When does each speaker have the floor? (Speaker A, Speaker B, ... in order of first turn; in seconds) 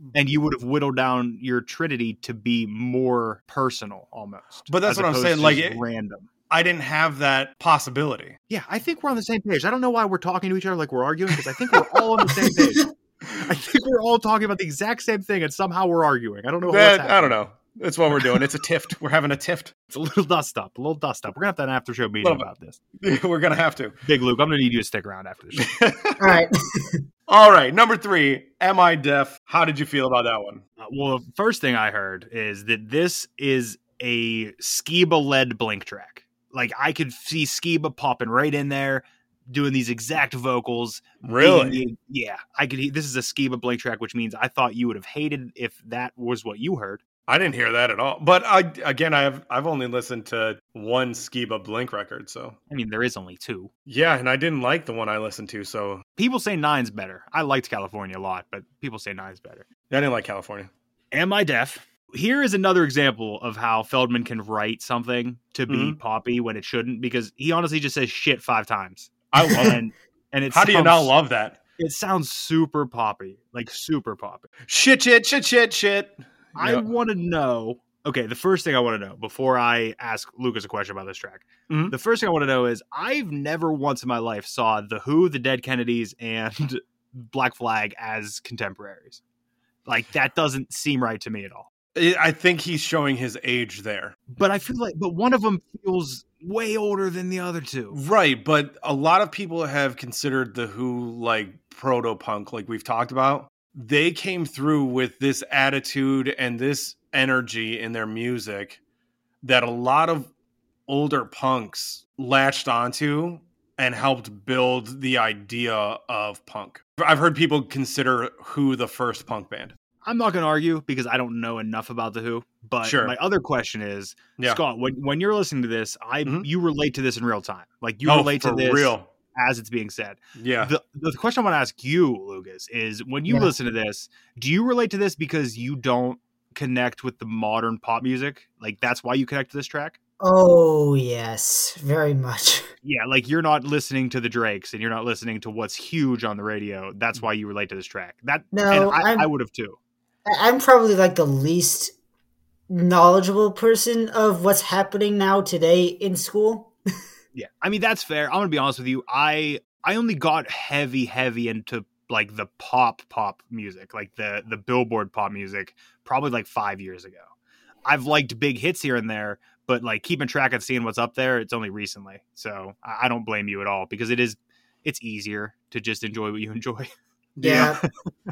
Speaker A: 0.1-6.3, 8.5-17.4, 19.9-22.8, 24.0-25.7, 30.8-47.0, 52.7-53.7, 56.2-59.7, 61.1-71.1, 71.8-74.5, 76.6-89.2, 89.9-91.7, 94.3-98.0, 120.0-140.0, 142.8-149.8, 157.3-167.3, 167.9-176.9
Speaker B: 4.7-5.8, 6.5-8.4, 16.7-19.7, 22.2-23.9, 25.6-26.4, 27.3-30.6, 41.2-41.8, 47.3-52.6, 53.9-56.0, 59.9-60.7, 65.7-66.0, 69.3-69.8, 70.5-71.6, 74.7-76.9, 81.7-82.0, 92.0-94.2, 97.9-108.8, 109.4-110.3, 110.9-119.8, 122.8-123.2, 128.1-129.1, 130.4-130.7, 177.4-177.8
Speaker C: 26.2-27.0, 140.2-142.7, 148.5-149.3, 150.3-151.9, 152.7-156.7, 177.4-177.8